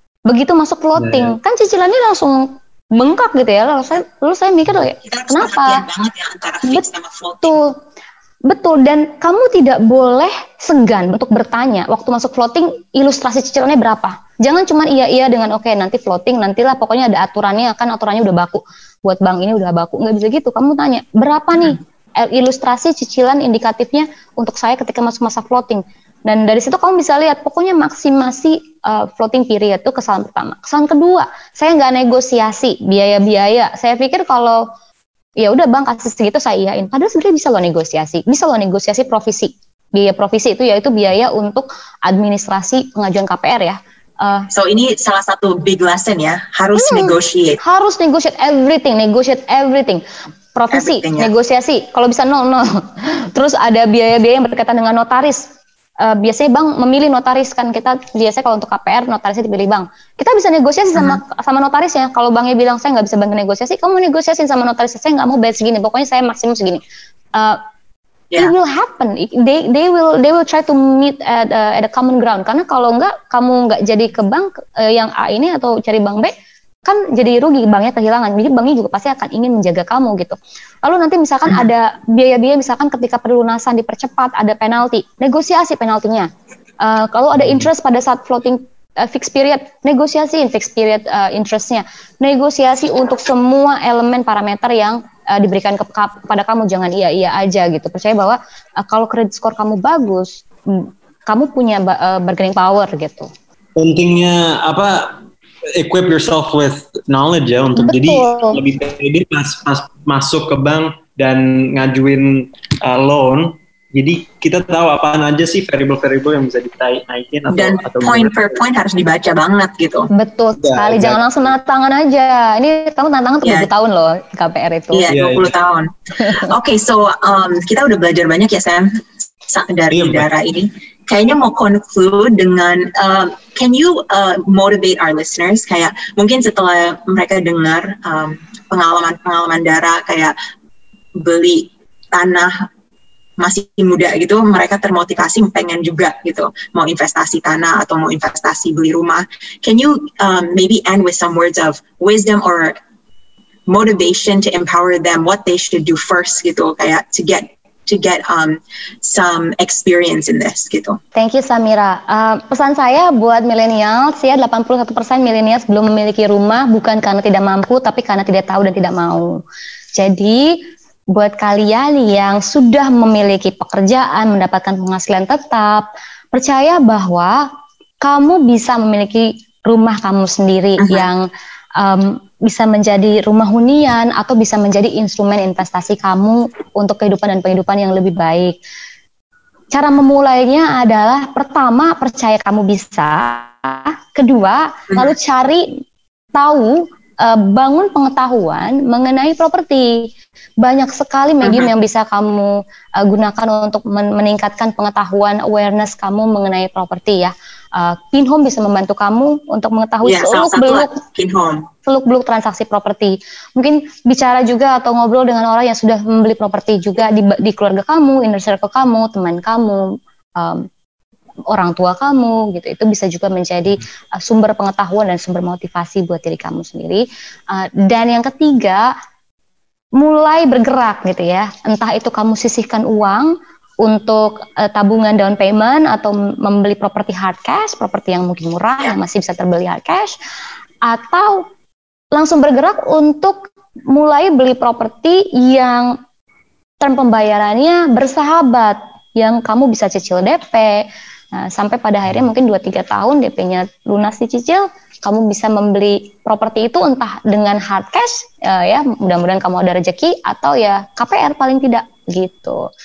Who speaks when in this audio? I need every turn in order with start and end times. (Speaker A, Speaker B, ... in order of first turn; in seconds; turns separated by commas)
Speaker A: 0.3-5.8, Speaker B: 1.0-1.3, Speaker C: 5.0-7.6, Speaker A: 7.4-7.7, Speaker A: 8.4-34.7, Speaker A: 35.4-44.5, Speaker C: 44.5-47.6, Speaker A: 46.7-50.0, Speaker A: 50.5-66.8, Speaker C: 50.7-51.3, Speaker A: 67.3-67.6, Speaker A: 68.4-76.3, Speaker A: 76.8-86.3, Speaker A: 86.8-103.3, Speaker B: 103.8-105.2, Speaker B: 105.7-118.5, Speaker A: 107.8-108.6, Speaker C: 117.5-120.1, Speaker A: 120.1-125.1, Speaker B: 120.6-121.2, Speaker C: 123.4-123.7, Speaker C: 124.9-140.3, Speaker B: 125.1-125.5, Speaker B: 129.9-130.3, Speaker C: 141.2-142.7, Speaker C: 143.4-152.8, Speaker C: 153.7-161.0, Speaker A: 161.1-169.4, Speaker A: 169.9-170.6, Speaker A: 171.1-177.5, Speaker A: 178.0-188.6, Speaker C: 180.8-181.1, Speaker A: 189.7-195.8, Speaker A: 196.3-211.0, Speaker C: 201.4-201.7, Speaker C: 210.0-211.7, Speaker A: 211.8-220.7, Speaker A: 221.5-228.9, Speaker A: 230.0-240.2, Speaker A: 240.8-241.5, Speaker A: 242.1-246.0, Speaker A: 246.8-262.7